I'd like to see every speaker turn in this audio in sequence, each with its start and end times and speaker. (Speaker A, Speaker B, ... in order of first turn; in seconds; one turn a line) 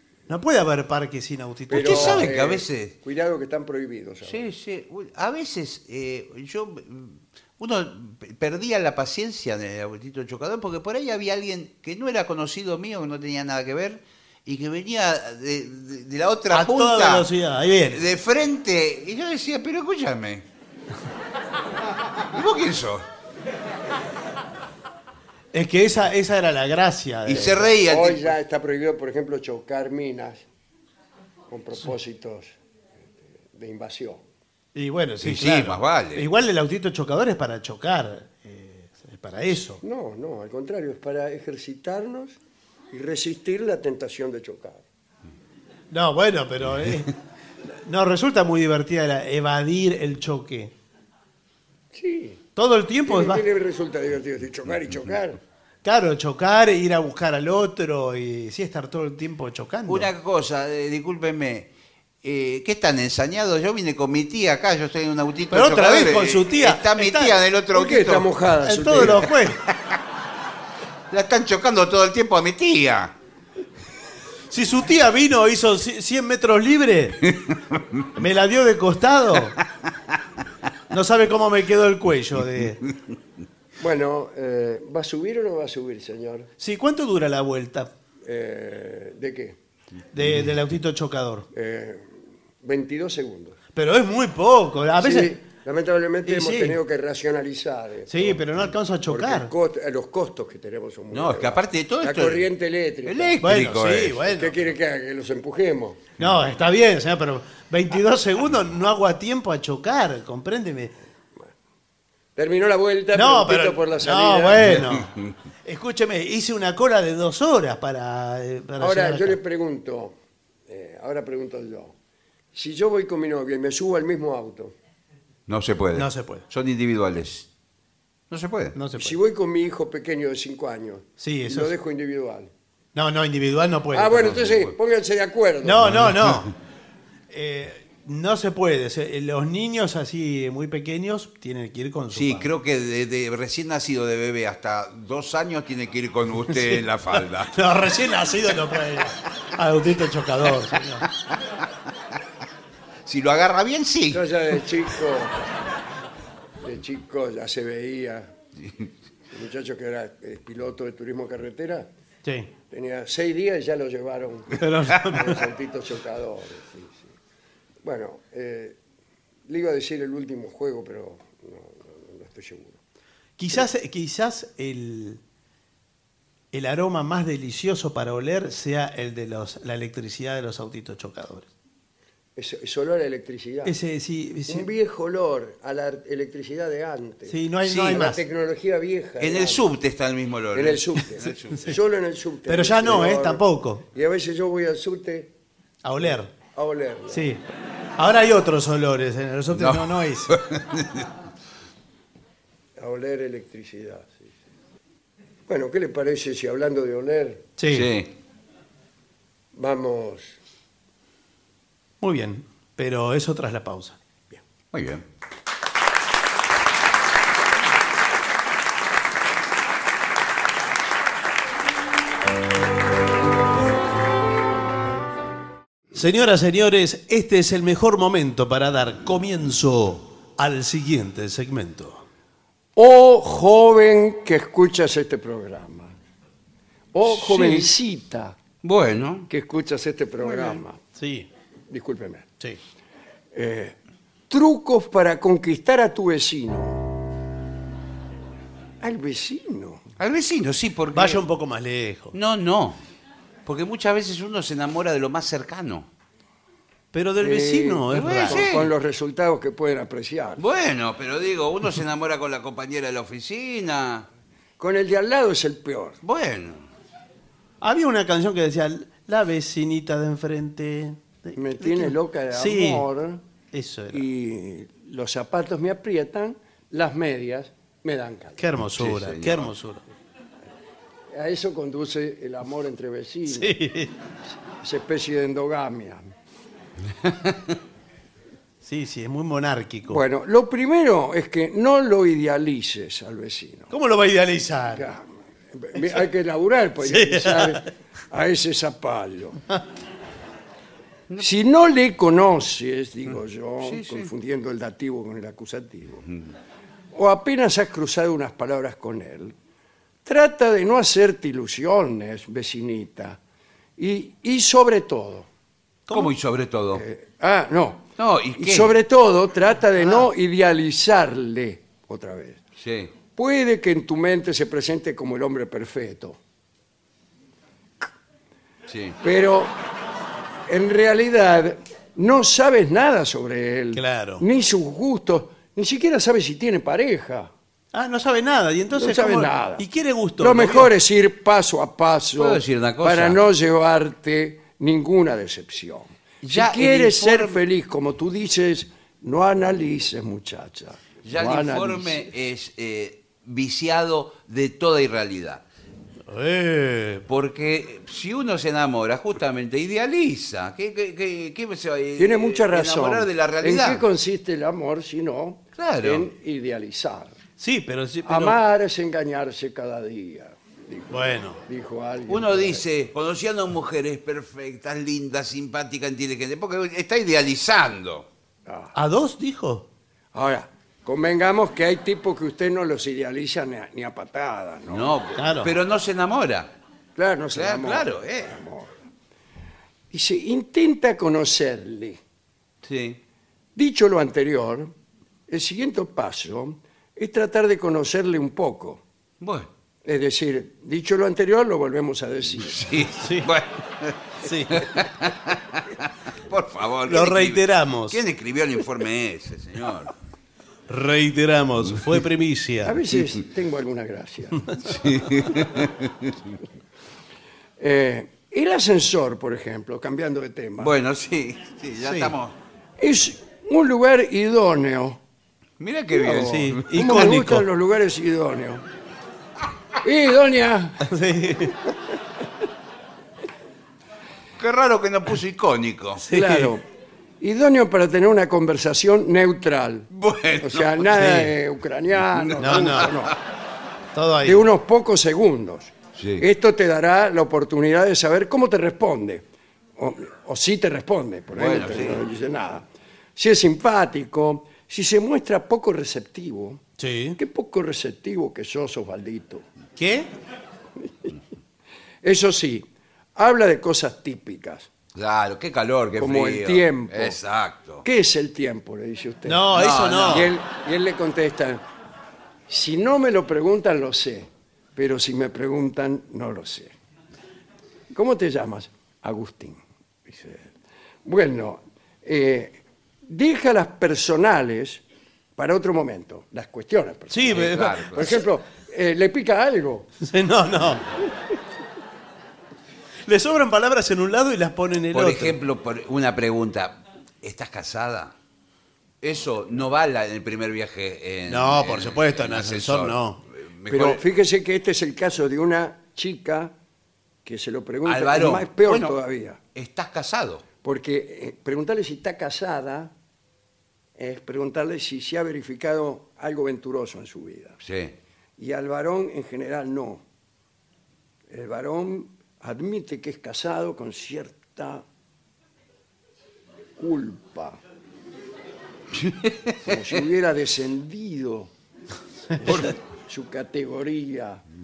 Speaker A: 0.3-2.3
Speaker B: 1.7-4.5
Speaker C: 1.7-2.9
Speaker C: 4.2-17.3
Speaker A: 16.5-18.0
Speaker C: 17.9-20.4
Speaker C: 22.2-23.0
Speaker A: 25.5-27.7
Speaker C: 27.2-28.3
Speaker B: 27.8-30.4
Speaker B: 31.5-32.5
Speaker B: 33.4-34.2
Speaker A: 34.7-39.8
Speaker C: 35.2-36.3
Speaker B: 39.8-42.4
Speaker B: 42.9-44.8
Speaker A: 45.9-47.1
Speaker A: 47.6-50.7
Speaker B: 51.9-52.4
Speaker A: 52.5-53.4
Speaker B: 53.0-55.4
Speaker A: 55.8-60.1
Speaker C: 59.9-61.7
Speaker C: 62.2-68.3
Speaker A: 65.5-67.3
Speaker B: 67.7-69.3
Speaker A: 68.6-69.6
Speaker C: 71.1-73.1
Speaker A: 74.5-77.3
Speaker C: 77.3-78.0
Speaker A: 78.1-79.6
Speaker A: 80.9-82.8
Speaker B: 83.8-86.5
Speaker A: 86.6-87.9
Speaker B: 88.2-89.6
Speaker A: 90.1-91.5
Speaker B: 91.5-93.6
Speaker A: 93.7-95.3
Speaker B: 95.0-98.4
Speaker A: 96.2-96.8
Speaker A: 98.1-99.5
Speaker B: 99.1-103.4
Speaker C: 101.1-102.5
Speaker C: 103.0-104.2
Speaker A: 103.4-104.6
Speaker B: 104.3-106.0
Speaker A: 106.2-110.9
Speaker B: 112.3-114.8
Speaker A: 113.1-115.1
Speaker C: 114.6-115.3
Speaker A: 115.6-119.4
Speaker B: 118.8-120.2
Speaker B: 120.7-121.9
Speaker B: 122.5-124.7
Speaker C: 125.5-127.5
Speaker A: 125.9-126.4
Speaker C: 128.3-128.8
Speaker A: 128.7-129.2
Speaker B: 128.9-132.5
Speaker A: 131.2-131.7
Speaker A: 132.9-134.4
Speaker B: 133.9-136.0
Speaker C: 134.4-134.7
Speaker A: 135.6-136.5
Speaker C: 135.9-136.5
Speaker A: 137.3-142.5
Speaker C: 142.1-147.5
Speaker A: 146.5-151.1
Speaker C: 153.1-154.3
Speaker B: 154.1-155.4
Speaker B: 156.6-158.3
Speaker B: 159.3-161.9
Speaker A: 162.2-162.5
Speaker B: 162.7-167.1
Speaker A: 164.6-165.4
Speaker B: 167.8-168.8
Speaker B: 169.5-172.8
Speaker A: 173.4-175.2
Speaker A: 176.5-181.5
Speaker B: 182.3-183.7
Speaker A: 183.6-184.7
Speaker B: 184.5-189.6
Speaker A: 187.3-188.2
Speaker C: 187.6-188.0
Speaker C: 189.2-191.7
Speaker B: 190.5-195.3
Speaker A: 192.5-193.8
Speaker A: 195.8-196.3
Speaker B: 196.0-197.3
Speaker A: 197.1-197.4
Speaker A: 198.0-200.3
Speaker C: 199.5-201.1
Speaker B: 202.8-204.3
Speaker B: 205.5-207.4
Speaker A: 207.6-207.9
Speaker C: 207.7-208.1
Speaker B: 209.5-210.4
Speaker A: 212.0-214.0
Speaker C: 214.7-215.0
Speaker A: 225.9-232.0
Speaker B: 232.8-235.9
Speaker B: 236.9-238.4
Speaker A: 237.1-237.7
Speaker C: 238.6-239.3
Speaker B: 239.3-240.8
Speaker C: 240.3-240.6
Speaker A: 240.9-241.3
Speaker B: 241.7-242.2
Speaker B: 243.3-243.8
Speaker B: 244.3-246.9
Speaker B: 248.8-249.8
Speaker C: 250.0-251.2
Speaker A: 250.9-252.1
Speaker C: 252.1-252.8
Speaker C: 253.4-255.9
Speaker A: 256.9-258.5
Speaker B: 257.2-260.4
Speaker C: 257.9-258.7
Speaker C: 260.4-264.1
Speaker B: 264.6-266.0
Speaker C: 266.0-266.6
Speaker A: 267.6-272.9
Speaker B: 271.3-273.2
Speaker A: 273.5-274.0
Speaker B: 273.9-278.4
Speaker A: 278.4-279.8
Speaker C: 278.7-279.5
Speaker B: 281.1-283.6
Speaker A: 283.3-283.9
Speaker B: 284.6-286.1
Speaker C: 287.0-287.4
Speaker A: 288.6-290.0
Speaker B: 289.9-293.7
Speaker A: 293.7-294.9
Speaker B: 294.7-299.4
Speaker A: 296.8-297.6
Speaker B: 301.2-306.1
Speaker C: 303.6-304.1
Speaker B: 306.9-309.4
Speaker B: 310.0-313.2
Speaker B: 313.8-315.3
Speaker A: 315.9-316.1
Speaker C: 315.9-316.8
Speaker B: 316.7-317.9
Speaker C: 318.0-318.7
Speaker B: 318.4-322.4
Speaker A: 319.8-320.1
Speaker C: 322.6-322.9
Speaker B: 323.1-326.2
Speaker C: 328.7-329.0
Speaker B: 329.0-329.5
Speaker B: 330.5-337.3
Speaker A: 333.7-334.2
Speaker A: 337.7-340.7
Speaker B: 338.7-339.6
Speaker B: 340.2-352.0
Speaker C: 342.2-343.2
Speaker C: 346.2-347.4
Speaker C: 351.0-355.4
Speaker A: 356.1-357.1
Speaker C: 357.1-363.8
Speaker B: 362.0-367.1
Speaker C: 365.6-366.1
Speaker A: 367.4-368.4
Speaker B: 368.0-372.6
Speaker A: 370.9-371.4
Speaker C: 372.1-378.1
Speaker B: 378.4-378.7
Speaker A: 378.7-379.7
Speaker B: 380.1-384.9
Speaker C: 384.7-386.5
Speaker A: 385.1-385.6
Speaker B: 386.9-388.8
Speaker C: 387.3-388.4
Speaker B: 389.9-392.0
Speaker C: 392.6-393.0
Speaker B: 393.6-394.7
Speaker B: 395.3-398.8
Speaker C: 399.2-399.5
Speaker B: 399.8-402.6
Speaker C: 402.4-409.9
Speaker A: 403.0-403.3
Speaker A: 404.2-404.8
Speaker A: 406.8-408.0
Speaker A: 410.7-412.9
Speaker B: 412.6-414.6
Speaker C: 414.6-416.4
Speaker B: 417.6-420.7
Speaker C: 420.6-422.3
Speaker A: 421.8-422.1
Speaker B: 422.8-425.0
Speaker C: 425.6-426.7
Speaker B: 425.9-428.6
Speaker A: 426.1-427.4
Speaker B: 429.8-430.9
Speaker A: 430.8-431.6
Speaker C: 434.4-436.0
Speaker A: 436.0-436.5
Speaker B: 436.1-436.6
Speaker B: 437.2-439.9
Speaker C: 439.9-440.9
Speaker B: 440.4-443.1
Speaker A: 440.9-441.3
Speaker C: 442.1-443.1
Speaker A: 442.4-442.9
Speaker A: 443.9-444.5
Speaker B: 444.2-449.2
Speaker C: 445.9-446.2
Speaker B: 449.8-456.6
Speaker C: 451.4-452.0
Speaker A: 456.8-457.2
Speaker B: 457.2-459.4
Speaker A: 459.8-460.1
Speaker B: 460.8-461.1
Speaker B: 462.0-464.7
Speaker C: 464.9-467.8
Speaker B: 466.0-467.2
Speaker B: 467.8-469.5
Speaker A: 469.2-470.3
Speaker C: 469.5-470.3
Speaker B: 470.0-471.6
Speaker B: 472.5-476.7
Speaker B: 477.9-480.5
Speaker B: 481.0-484.8
Speaker B: 485.4-489.9
Speaker A: 487.1-488.0
Speaker C: 487.3-488.2
Speaker A: 490.0-490.9
Speaker A: 493.1-495.4
Speaker C: 494.9-498.1
Speaker C: 499.0-504.0
Speaker A: 501.3-503.2
Speaker B: 503.7-506.5
Speaker B: 507.2-509.4
Speaker C: 507.8-509.0
Speaker C: 509.5-510.4
Speaker B: 510.6-512.9
Speaker B: 514.0-517.6
Speaker C: 517.6-517.9
Speaker B: 518.4-520.0
Speaker B: 521.3-524.8
Speaker B: 526.8-527.6
Speaker C: 529.0-529.5
Speaker B: 529.6-531.5
Speaker A: 532.3-532.7
Speaker B: 532.4-534.4